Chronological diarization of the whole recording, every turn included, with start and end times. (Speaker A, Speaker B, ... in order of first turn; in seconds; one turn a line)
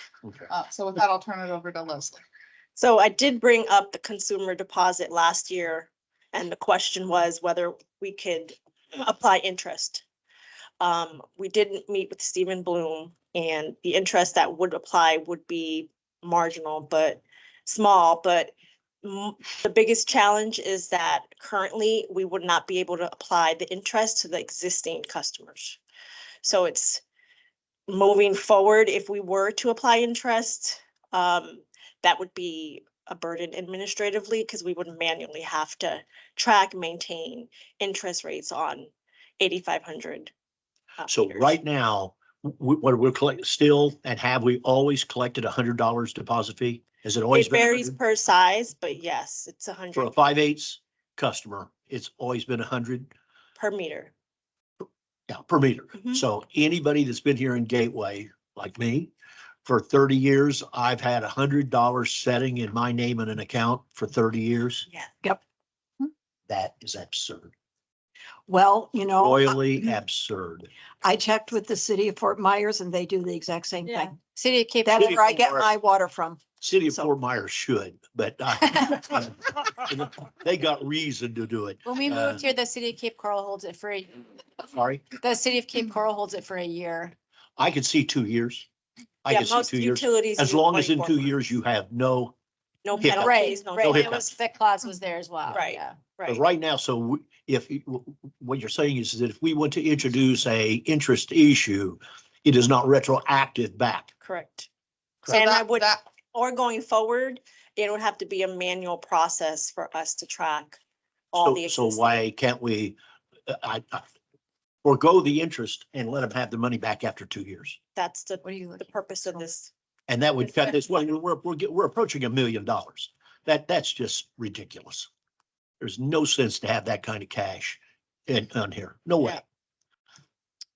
Speaker A: 0.2-0.5
Speaker B: 0.5-2.2
Speaker C: 2.8-10.0
Speaker C: 10.8-25.8
Speaker C: 26.4-27.0
Speaker C: 27.9-40.3
Speaker C: 41.0-41.5
Speaker A: 41.1-48.0
Speaker C: 47.3-50.1
Speaker A: 49.9-53.1
Speaker C: 53.5-54.1
Speaker A: 55.3-59.1
Speaker C: 56.0-56.2
Speaker A: 59.6-64.9
Speaker A: 66.5-67.5
Speaker D: 68.5-69.6
Speaker A: 69.2-70.7
Speaker D: 71.0-74.2
Speaker E: 73.8-75.4
Speaker D: 74.8-77.1
Speaker A: 75.0-75.7
Speaker A: 76.6-82.4
Speaker E: 81.8-84.1
Speaker A: 84.7-85.1
Speaker E: 85.2-87.1
Speaker A: 87.6-88.7
Speaker A: 89.2-92.3
Speaker C: 89.3-91.3
Speaker C: 92.8-94.1
Speaker A: 93.0-94.3
Speaker E: 93.0-96.0
Speaker C: 95.5-96.4
Speaker A: 96.3-104.1
Speaker C: 104.2-104.7
Speaker C: 105.2-110.8
Speaker B: 105.2-106.0
Speaker C: 111.3-112.2
Speaker A: 111.3-114.0
Speaker A: 114.8-117.8
Speaker C: 118.0-119.7
Speaker E: 118.4-119.5
Speaker A: 120.1-125.1
Speaker A: 125.8-129.4